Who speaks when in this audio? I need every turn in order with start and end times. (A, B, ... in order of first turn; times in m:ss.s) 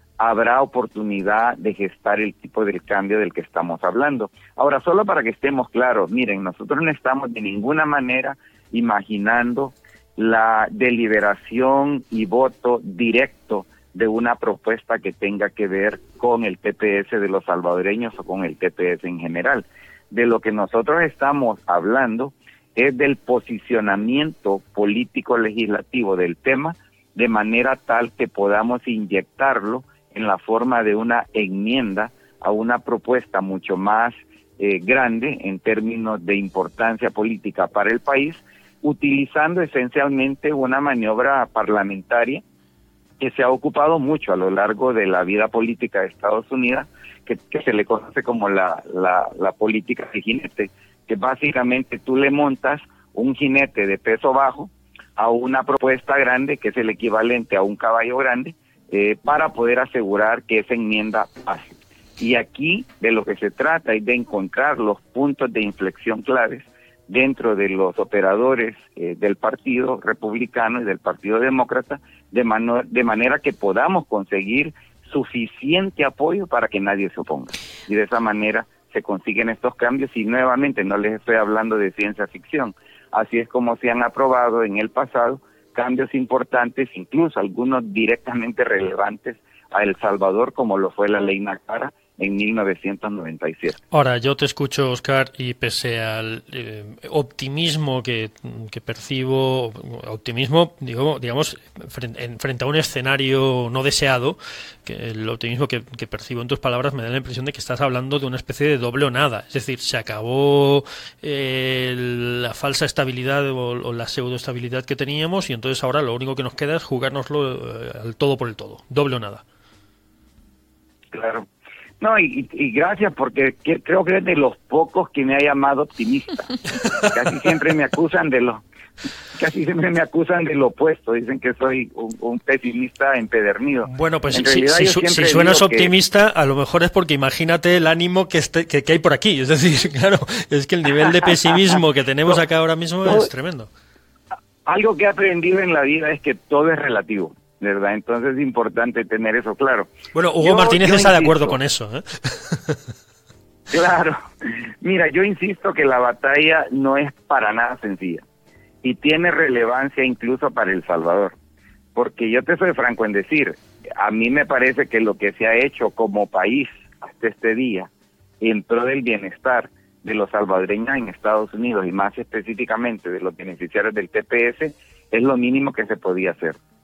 0:00.2-0:42.4 A
0:43.2-1:33.8 A
1:33.9-1:59.4 B
2:01.1-2:01.5 A
2:02.0-2:08.6 A
2:09.3-2:15.9 A
2:13.8-2:23.7 B
2:24.6-2:31.6 A
2:30.1-2:32.8 B
2:33.7-2:38.2 A
2:38.8-2:41.4 A
2:41.9-2:47.9 A
2:48.4-2:56.6 A